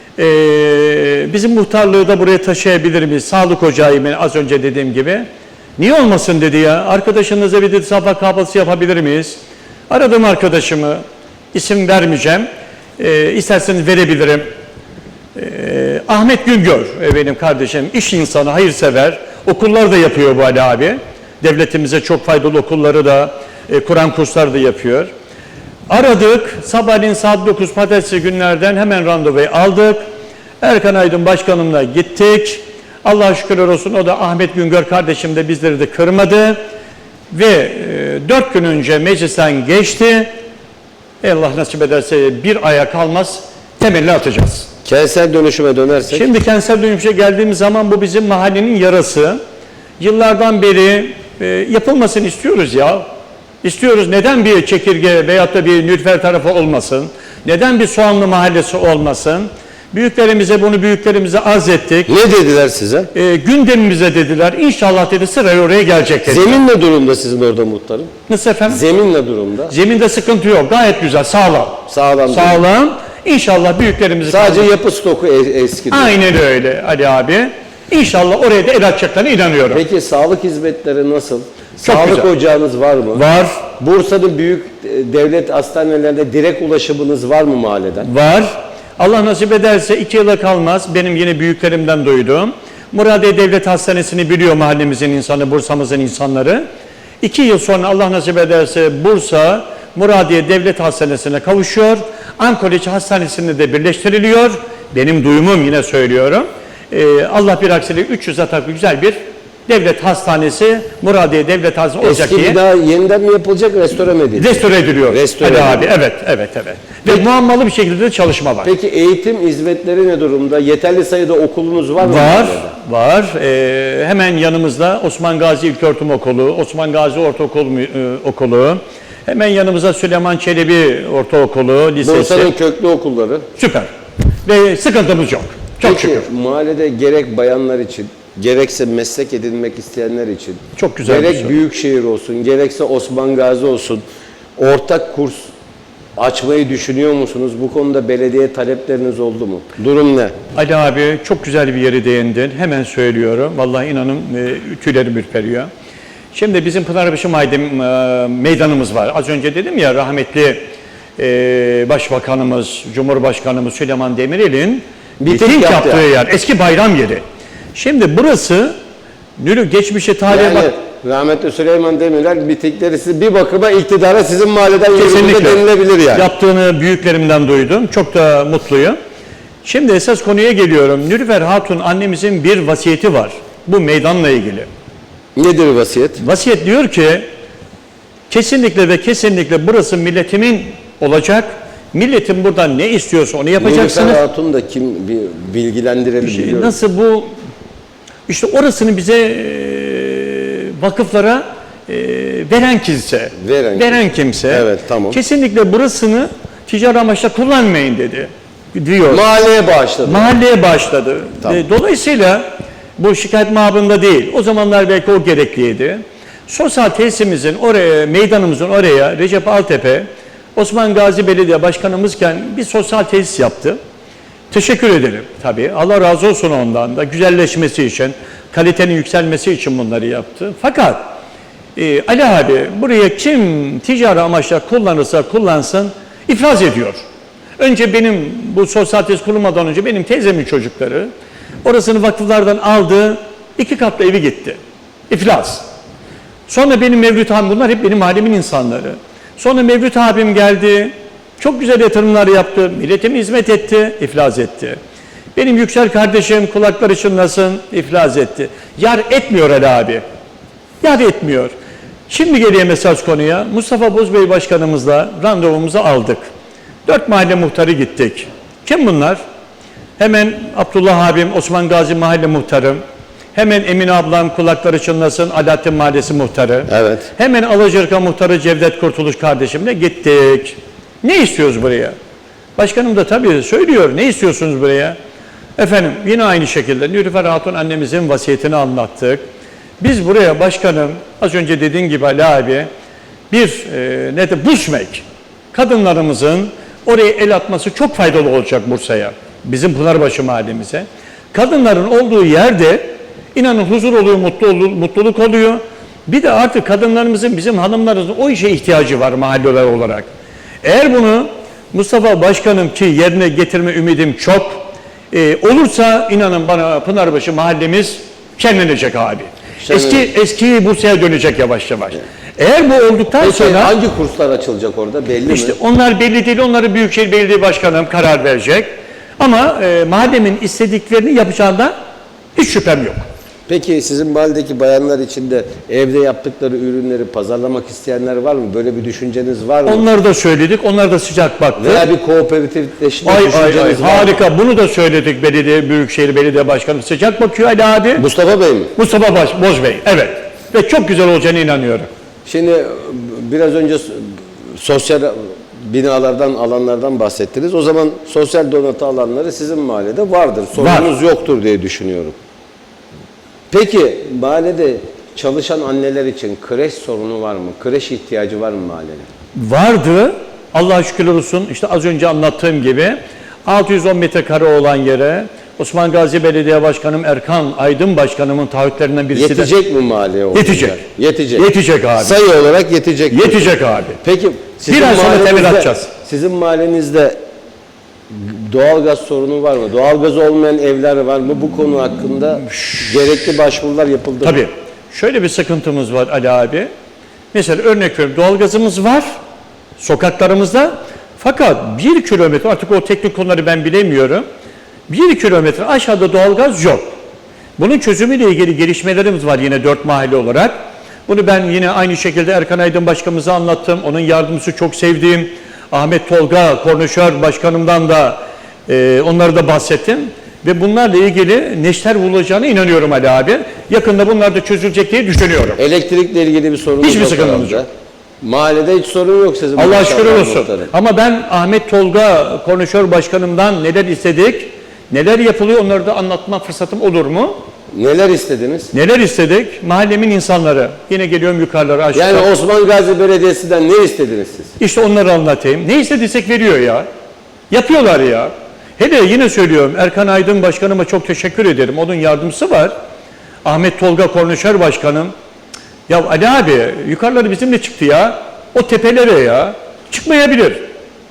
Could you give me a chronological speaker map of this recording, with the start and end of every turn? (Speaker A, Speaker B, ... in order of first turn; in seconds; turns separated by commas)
Speaker A: 0.2-11.0, Speaker A: 11.5-12.5, Speaker A: 13.0-14.5, Speaker A: 15.4-25.1, Speaker A: 25.9-30.0, Speaker A: 30.6-36.6, Speaker A: 37.3-40.3, Speaker A: 41.2-44.7, Speaker B: 44.9-46.3, Speaker A: 46.1-49.4, Speaker A: 50.0-53.1, Speaker A: 53.6-62.1, Speaker B: 62.1-63.1, Speaker A: 63.1-66.6, Speaker B: 66.2-68.1, Speaker A: 68.3-68.8, Speaker B: 68.7-69.7, Speaker A: 69.7-74.7, Speaker B: 71.9-72.6, Speaker B: 74.3-76.2, Speaker A: 75.9-79.8, Speaker B: 79.7-83.2, Speaker A: 81.8-82.3, Speaker A: 83.1-83.7, Speaker B: 83.8-88.1, Speaker A: 88.0-96.6, Speaker A: 97.2-109.2, Speaker A: 109.7-112.6, Speaker B: 112.0-115.9, Speaker A: 114.4-118.7, Speaker B: 118.6-122.7, Speaker A: 122.0-132.5, Speaker B: 132.0-133.5, Speaker A: 133.6-133.9, Speaker A: 134.4-136.3, Speaker B: 135.8-144.0, Speaker A: 140.8-141.6, Speaker B: 144.6-145.5, Speaker B: 146.2-150.3, Speaker A: 150.6-155.7, Speaker A: 156.3-160.6, Speaker A: 161.2-167.2, Speaker B: 165.2-166.1, Speaker A: 167.8-168.7, Speaker A: 169.4-170.7, Speaker B: 170.3-176.3, Speaker A: 174.9-179.0, Speaker A: 179.6-184.7, Speaker B: 185.4-186.2, Speaker A: 186.2-187.2, Speaker A: 188.3-194.2, Speaker B: 193.6-196.8, Speaker A: 196.2-197.3, Speaker A: 198.3-209.2, Speaker B: 203.4-205.2, Speaker B: 209.1-210.4, Speaker A: 210.0-223.8, Speaker A: 224.5-231.2, Speaker A: 231.8-237.0, Speaker A: 237.6-241.1, Speaker A: 241.7-244.6, Speaker A: 245.1-245.6, Speaker A: 246.5-254.8, Speaker A: 255.4-260.0, Speaker A: 260.8-261.5, Speaker A: 262.1-266.3, Speaker A: 266.9-269.2, Speaker A: 270.0-272.8, Speaker A: 273.4-281.9, Speaker B: 276.7-277.1, Speaker A: 282.6-285.0, Speaker A: 285.6-289.2, Speaker A: 289.8-292.7, Speaker A: 293.3-310.1, Speaker A: 310.6-323.7, Speaker B: 319.6-320.1, Speaker B: 323.2-325.6, Speaker A: 325.3-331.7, Speaker A: 332.4-333.0, Speaker B: 333.5-339.9, Speaker A: 339.7-341.9, Speaker B: 341.6-344.2, Speaker A: 343.0-348.1, Speaker B: 348.0-348.7, Speaker A: 348.8-351.9, Speaker B: 352.2-362.2, Speaker A: 360.6-360.9, Speaker B: 363.5-369.1, Speaker A: 369.4-379.5, Speaker B: 379.1-381.5, Speaker A: 380.3-380.8, Speaker A: 381.4-382.2, Speaker B: 382.0-383.5, Speaker A: 383.1-384.0, Speaker B: 384.0-387.2, Speaker A: 384.7-385.9, Speaker B: 388.1-394.4, Speaker A: 392.5-392.9, Speaker A: 394.2-396.7, Speaker A: 397.3-399.1, Speaker A: 399.8-404.2, Speaker A: 404.9-406.9, Speaker A: 407.6-410.5, Speaker A: 411.1-425.6, Speaker B: 425.6-427.7, Speaker A: 426.8-427.6, Speaker B: 428.2-430.7, Speaker A: 429.6-437.4, Speaker B: 437.7-438.7, Speaker A: 438.7-442.3, Speaker B: 441.9-444.5, Speaker A: 444.6-446.9, Speaker A: 447.5-452.7, Speaker A: 453.4-455.1, Speaker A: 455.9-460.6